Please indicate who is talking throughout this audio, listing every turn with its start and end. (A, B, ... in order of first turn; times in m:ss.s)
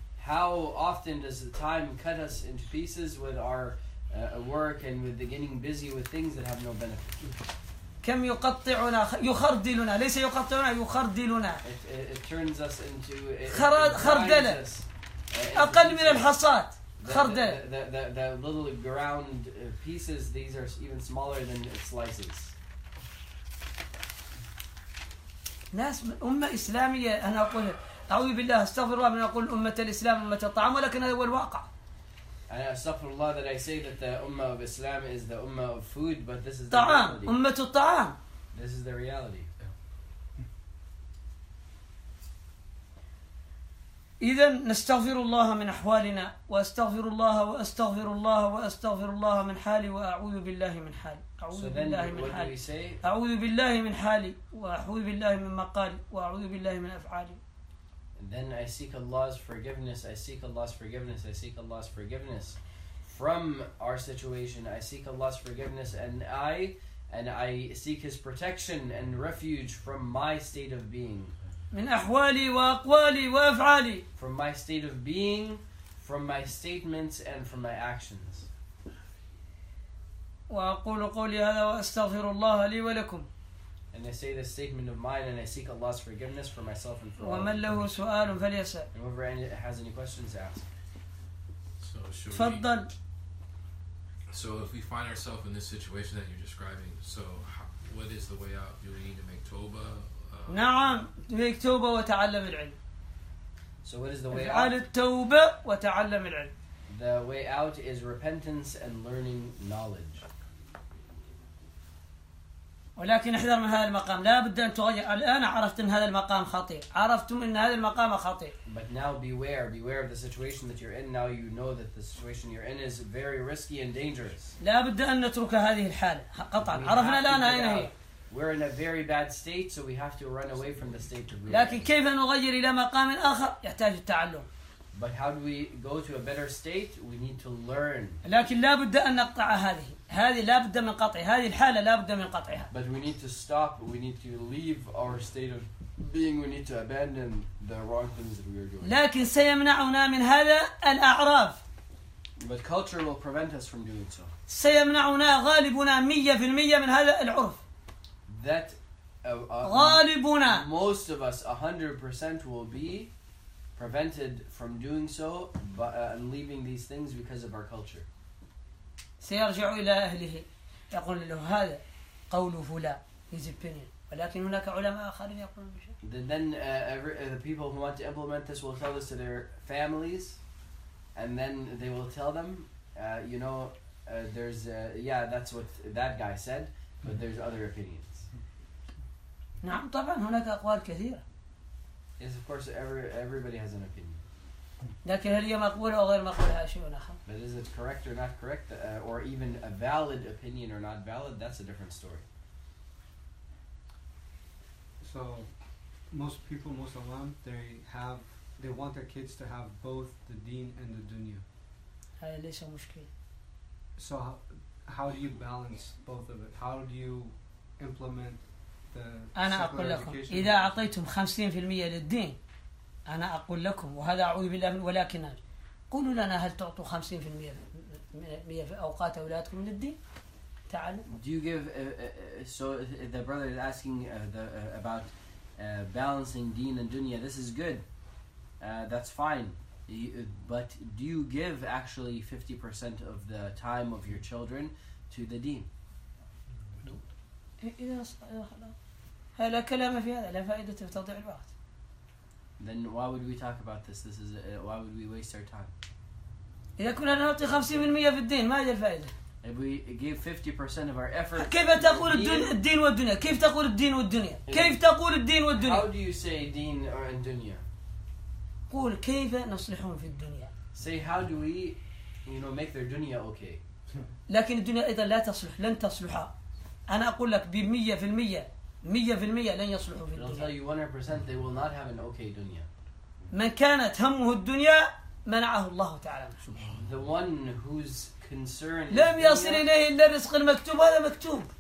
0:00.2-0:07.3 A
0:08.0-0:11.6 B
0:11.6-0:16.3 A
0:13.5-0:14.6 B
0:15.5-0:17.6 B
0:17.0-0:22.5 A
0:25.7-0:31.7 B
0:32.5-0:37.4 A
0:36.7-0:38.2 B
0:38.5-0:39.5 A
0:44.2-0:57.4 B
0:51.5-0:53.0 A
0:58.2-1:11.3 A
1:11.7-1:14.0 B
1:14.2-1:18.5 A
1:20.5-1:23.3 B
1:23.9-1:27.6 A
1:27.2-1:28.9 B
1:28.9-1:30.7 A
1:31.8-1:32.6 C
1:32.3-1:32.9 B
1:34.3-1:40.8 C
1:40.5-1:42.8 B
1:43.8-1:44.7 A
1:44.3-1:46.5 B
1:46.9-1:50.2 A
1:53.0-1:58.5 B
1:58.6-2:04.6 A
2:04.6-2:07.9 B
2:06.6-2:11.9 A
2:11.5-2:14.5 B
2:14.9-2:18.2 A
2:18.2-2:22.7 B
2:22.7-2:29.0 A
2:28.8-2:31.6 B
2:32.4-2:34.3 A
2:34.5-2:37.6 B
2:38.3-2:43.1 A
2:39.6-2:40.6 B
2:43.8-2:48.1 A
2:49.2-2:56.0 B
2:56.0-3:00.4 A
3:01.1-3:08.3 A
3:09.6-3:11.2 B
3:12.2-3:14.2 A
3:15.0-3:17.2 B
3:17.2-3:22.2 A
3:25.0-3:25.5 D
3:26.1-3:31.4 D
3:32.2-3:33.1 B
3:34.0-3:40.9 D
3:39.3-3:42.4 B
3:43.1-3:45.4 B
3:45.9-3:50.0 B
3:50.7-3:51.1 B
3:51.1-3:57.8 A
3:58.6-4:05.7 A
4:07.6-4:08.8 B
4:09.4-4:11.5 B
4:12.6-4:15.7 A
4:16.8-4:19.1 B
4:19.4-4:22.6 A
4:21.4-4:25.9 B
4:24.4-4:24.8 A
4:25.5-4:27.6 A
4:28.7-4:30.5 B
4:30.7-4:33.6 A
4:34.3-4:36.3 B
4:36.9-4:40.5 B
4:40.1-4:42.7 A
4:43.3-4:46.4 B
4:46.5-4:46.8 C
4:46.7-4:49.6 A
4:48.9-4:51.5 B